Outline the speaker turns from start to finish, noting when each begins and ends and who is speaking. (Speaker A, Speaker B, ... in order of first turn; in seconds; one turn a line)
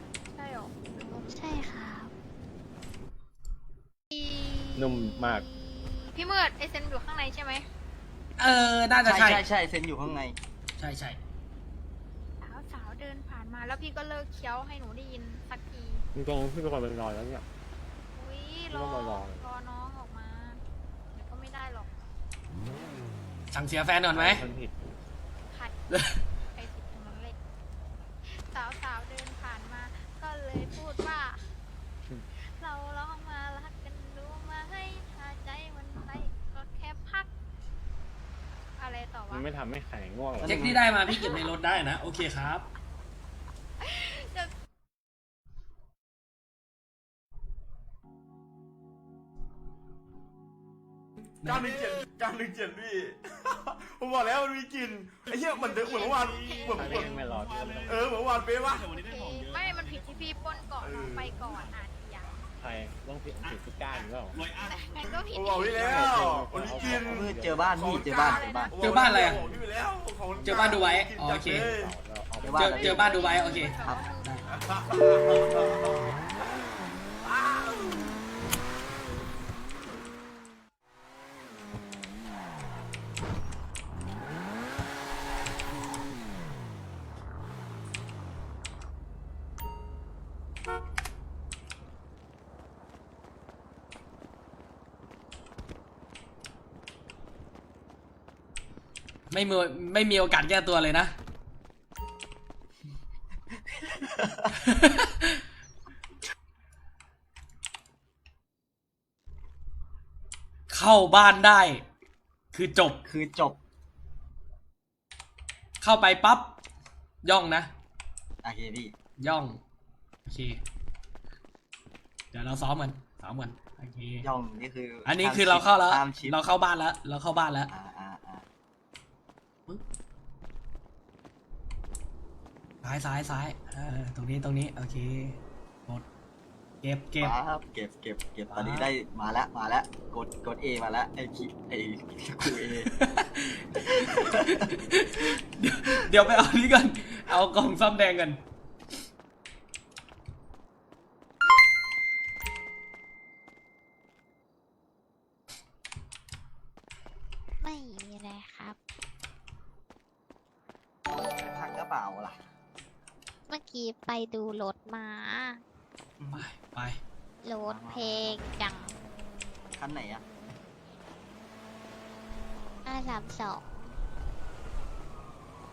Speaker A: 0.3-0.8
Speaker B: 1.0-2.1
Speaker A: 4.1-7.7
Speaker C: 4.8-5.5
Speaker D: 8.4-9.4
Speaker E: 9.1-10.4
Speaker D: 10.8-11.2
Speaker A: 12.4-16.0
Speaker C: 16.1-17.5
Speaker A: 18.1-21.9
Speaker C: 18.7-19.5
Speaker D: 23.5-24.4
Speaker C: 24.1-24.8
Speaker D: 25.9-26.2
Speaker A: 26.5-27.4
Speaker A: 28.3-31.4
Speaker A: 32.4-37.3
Speaker A: 38.8-39.5
Speaker C: 39.3-40.9
Speaker E: 40.4-40.8
Speaker D: 40.4-42.7
Speaker A: 41.1-41.4
Speaker A: 43.8-44.5
Speaker D: 51.4-51.7
Speaker F: 51.4-59.7
Speaker A: 55.5-57.2
Speaker C: 56.7-58.1
Speaker A: 58.8-62.5
Speaker F: 60.8-61.7
Speaker C: 62.6-64.4
Speaker F: 64.3-72.0
Speaker A: 64.6-67.0
Speaker C: 65.7-68.0
Speaker E: 67.0-68.7
Speaker A: 68.1-68.7
Speaker D: 68.8-69.5
Speaker C: 70.3-70.8
Speaker D: 70.5-71.7
Speaker C: 71.7-72.9
Speaker E: 72.4-73.0
Speaker D: 72.6-74.5
Speaker A: 72.6-75.4
Speaker F: 74.5-76.2
Speaker F: 77.2-78.1
Speaker D: 99.3-101.1
Speaker E: 103.7-104.5
Speaker D: 104.6-105.4
Speaker D: 110.7-111.8
Speaker D: 112.5-113.0
Speaker E: 113.0-113.6
Speaker D: 115.8-116.6
Speaker D: 117.2-117.7
Speaker E: 118.4-118.9
Speaker D: 119.2-119.6
Speaker D: 120.3-120.6
Speaker D: 122.3-124.3
Speaker E: 124.2-126.4
Speaker D: 125.1-127.7
Speaker E: 127.7-128.4
Speaker D: 132.8-136.0
Speaker D: 136.8-137.4
Speaker E: 137.2-142.9
Speaker D: 138.5-138.9
Speaker D: 142.8-148.4
Speaker E: 143.8-144.7
Speaker B: 157.6-158.8
Speaker E: 161.2-162.4
Speaker B: 163.5-165.6
Speaker E: 166.2-166.5
Speaker D: 166.3-167.0
Speaker B: 167.4-168.9
Speaker E: 167.6-168.4
Speaker E: 169.7-170.2
Speaker B: 172.8-173.7